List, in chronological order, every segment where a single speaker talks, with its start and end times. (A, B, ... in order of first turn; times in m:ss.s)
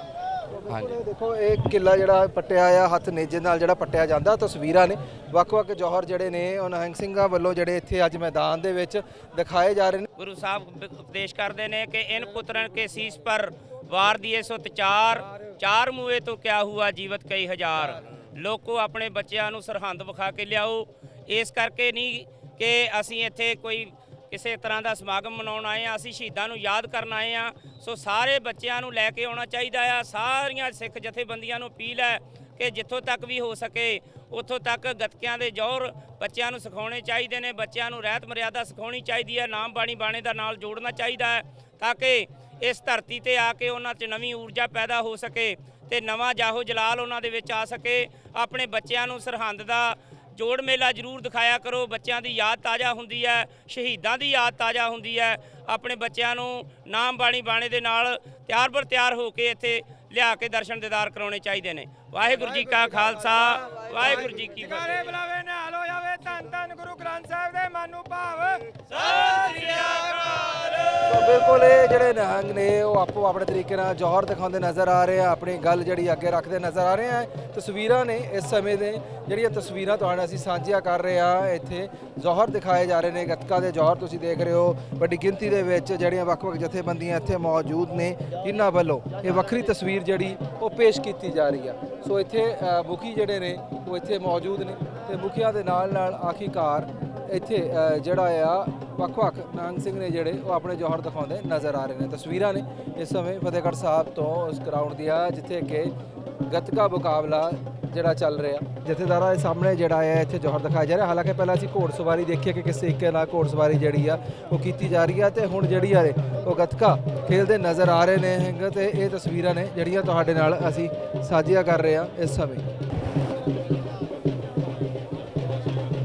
0:00.5-0:10.1 A
0:10.2-1:05.3 B
1:05.2-1:08.8 C
1:07.4-1:08.3 B
1:08.9-1:10.6 B
1:09.5-1:10.1 C
1:11.0-1:45.9 A
1:46.5-2:02.6 A